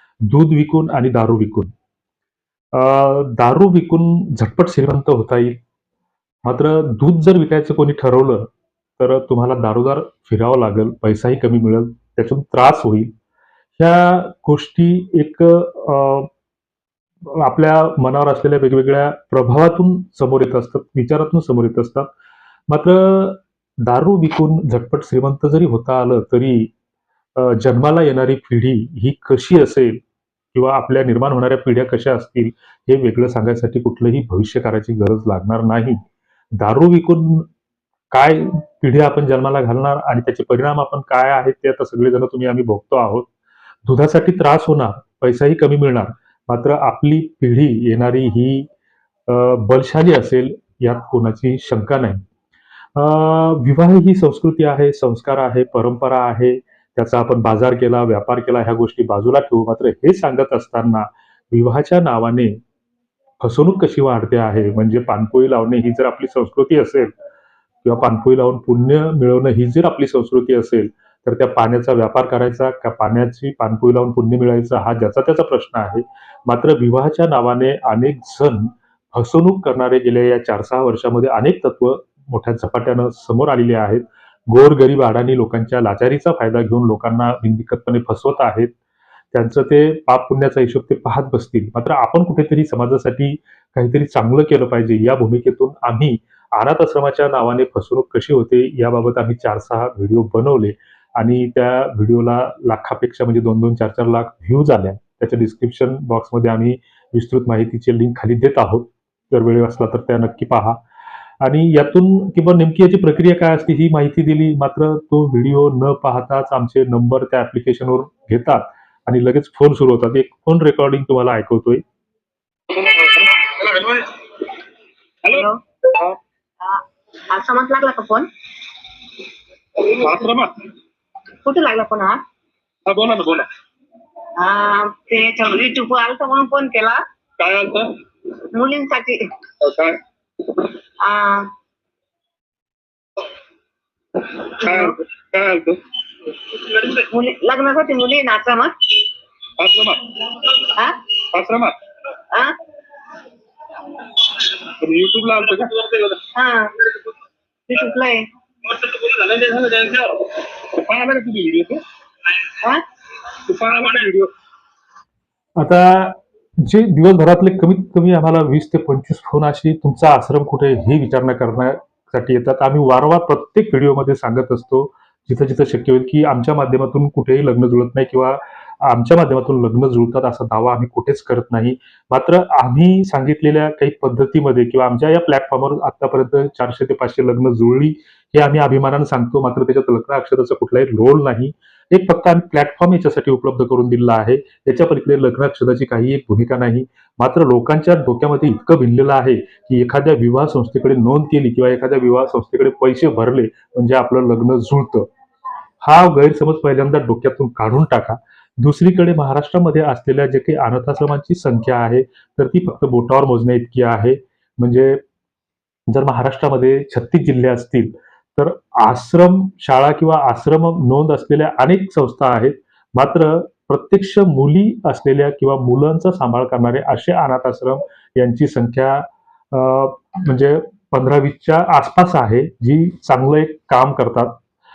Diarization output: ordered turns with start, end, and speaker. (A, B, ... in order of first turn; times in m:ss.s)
0:00.2-0:01.7 A
0:02.7-0:05.6 A
0:06.4-0:13.1 A
0:13.8-0:16.3 A
0:17.2-0:22.1 A
0:22.7-0:26.7 A
0:27.4-0:30.0 A
0:30.5-0:36.0 A
0:36.6-0:37.5 A
0:38.1-0:43.3 A
0:43.8-0:48.7 A
0:49.3-0:52.2 A
0:52.9-1:02.6 A
1:03.4-1:07.1 A
1:07.8-1:28.7 A
1:29.3-1:50.8 A
1:51.4-2:01.8 A
2:02.7-2:04.2 B
2:05.2-2:06.2 B
2:05.3-2:05.6 C
2:06.6-2:08.3 C
2:09.8-2:10.7 B
2:11.4-2:12.2 C
2:12.8-2:13.5 B
2:14.4-2:17.0 C
2:17.4-2:17.9 B
2:18.5-2:19.3 C
2:19.6-2:20.0 B
2:21.0-2:21.5 C
2:24.2-2:25.8 B
2:24.6-2:25.0 C
2:26.4-2:27.0 B
2:27.0-2:29.0 C
2:29.6-2:30.6 B
2:30.8-2:31.0 C
2:31.3-2:31.8 B
2:32.3-2:32.6 C
2:34.2-2:36.2 B
2:36.3-2:36.9 C
2:37.7-2:38.3 C
2:38.6-2:41.8 B
2:43.4-2:44.3 B
2:45.6-3:25.1 A
3:25.8-3:35.0 A
3:35.9-3:54.4 A